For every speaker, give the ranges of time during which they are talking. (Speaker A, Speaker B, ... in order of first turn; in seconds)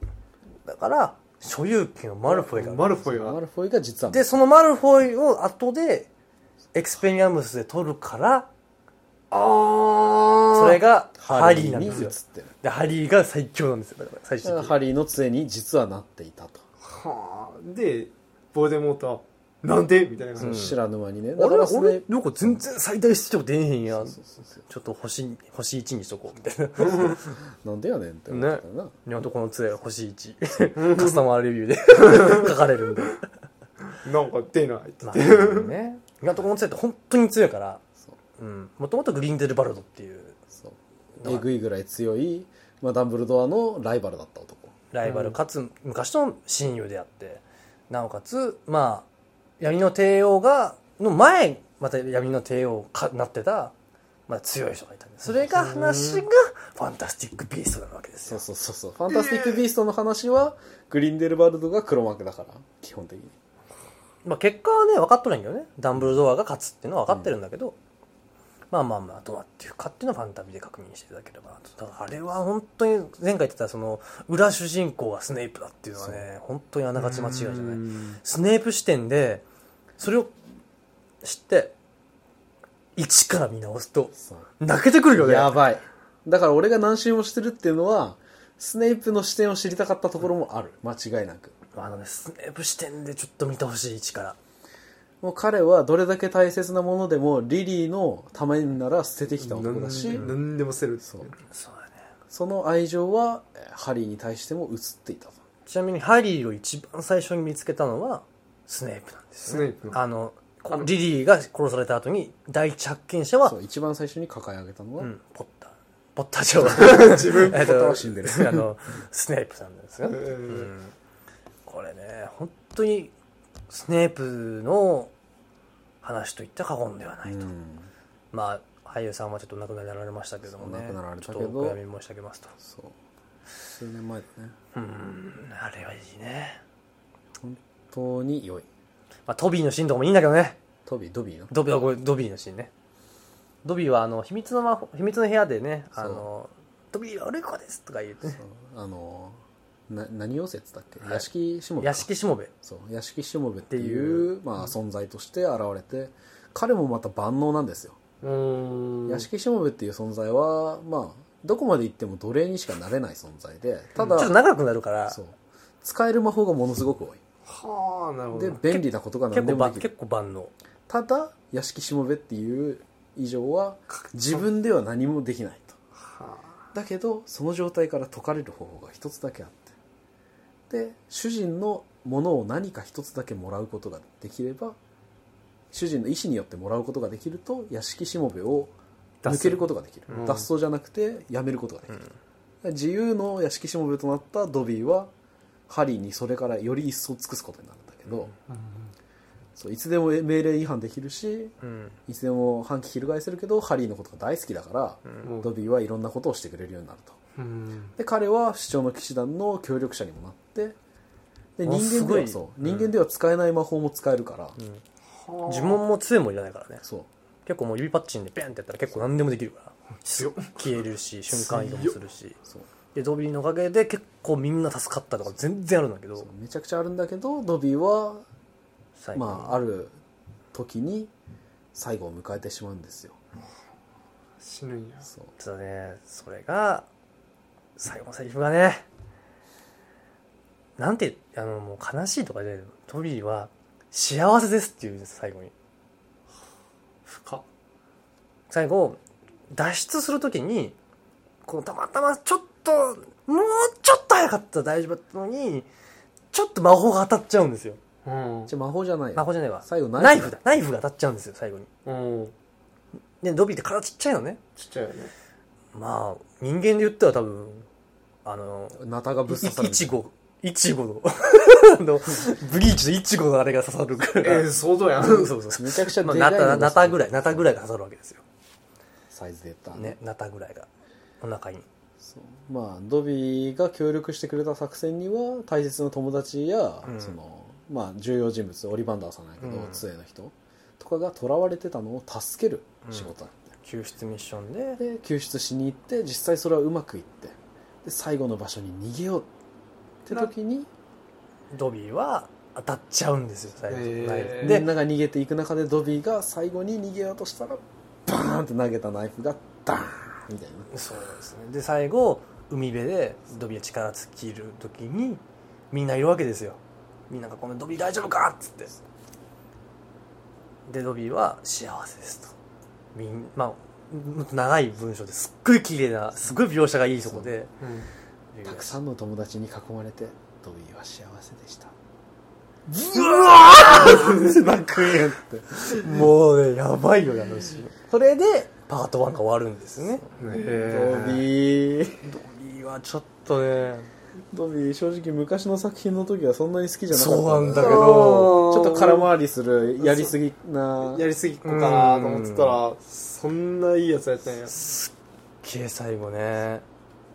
Speaker A: 0.7-3.0, 4.1-6.1, 6.7-8.5, 10.5-14.8, 20.4-20.8, 21.4-27.3, 28.3-33.2, 35.0-37.8, 38.4-40.4, 41.2-41.5, 44.9-49.1, 49.6-53.7, 54.3-58.4, 64.2-67.8, 68.7-79.4, 80.0-80.3, 81.2-81.8, 83.0-85.6, 91.7-94.4, 101.5-101.9, 105.7-113.6, 115.0-121.0, 121.7-123.1, 123.7-125.1, 126.0-127.5, 128.3-132.6, 134.7-136.6, 139.3-140.6, 141.5-142.7, 143.6-148.4, 151.8-152.5, 153.7-154.3, 164.0-165.2, 168.7-170.5, 201.6-202.0, 211.7-212.9, 215.5-216.8, 217.5-222.4, 222.9-226.3, 229.0-229.6, 235.4-236.9, 237.8-238.8, 240.8-245.5, 248.5-249.0, 249.5-250.8, 251.5-255.7, 256.3-257.8, 259.2-261.7, 263.2-264.4, 265.7-267.7, 268.2-274.5, 275.0-278.2, 279.7-280.7, 281.2-281.7, 286.9-287.2, 289.4-289.8, 292.9-293.1, 293.6-294.8, 301.5-304.7, 310.7-318.7, 320.7-322.4, 322.9-327.5, 328.3-328.7, 332.9-334.0, 335.6-340.1, 342.0-343.9, 346.9-348.4, 351.4-352.6, 354.5-356.6
Speaker B: 2.3-3.4, 9.3-10.8, 16.8-20.7, 30.8-31.2, 32.0-32.5, 33.9-35.7, 45.0-45.4, 55.5-56.2, 59.1-59.6, 77.0-77.8, 99.4-101.4, 109.5-110.0, 116.7-117.7, 120.1-120.7, 158.2-159.3, 164.0-164.2, 167.5-168.6, 173.9-174.5, 176.0-176.5, 189.2-190.5, 198.5-198.9, 205.2-205.5, 207.4-207.9, 215.2-215.8, 220.2-220.7, 221.3-222.0, 234.4-235.1, 247.1-247.4, 258.1-258.5, 261.9-262.3, 264.6-265.1, 274.2-275.4, 303.7-304.6, 327.6-327.9, 333.5-334.8, 340.2-341.3, 347.5-349.1, 349.8-350.1, 350.8-354.6
Speaker C: 3.0-4.3, 11.2-12.5, 14.4-16.6, 20.4-22.6, 24.1-24.6, 27.1-28.9, 40.5-44.7, 58.3-63.3, 67.1-67.3, 85.2-91.6, 95.2-100.3, 102.3-105.4, 113.5-115.1, 117.0-118.7, 127.2-127.9, 130.6-131.8, 132.6-132.9, 133.7-134.6, 137.4-138.7, 140.9-141.5, 146.0-146.2, 148.4-152.1, 152.6-158.0, 159.1-164.3, 165.1-167.2, 168.3-169.9, 170.9-175.8, 176.7-179.7, 180.7-184.8, 185.7-192.0, 192.6-195.1, 195.7-198.3, 199.6-201.6, 202.1-207.2, 208.0-210.8, 211.6-214.6, 216.8-217.1, 226.2-228.2, 229.2-230.0, 230.5-231.1, 231.7-233.2, 258.5-260.4, 268.8-270.0, 275.6-277.5, 279.1-280.0, 282.0-293.5, 294.8-299.3, 300.1-300.7, 304.4-310.7, 328.4-331.7, 332.9-335.8, 340.5-342.0, 344.3-351.1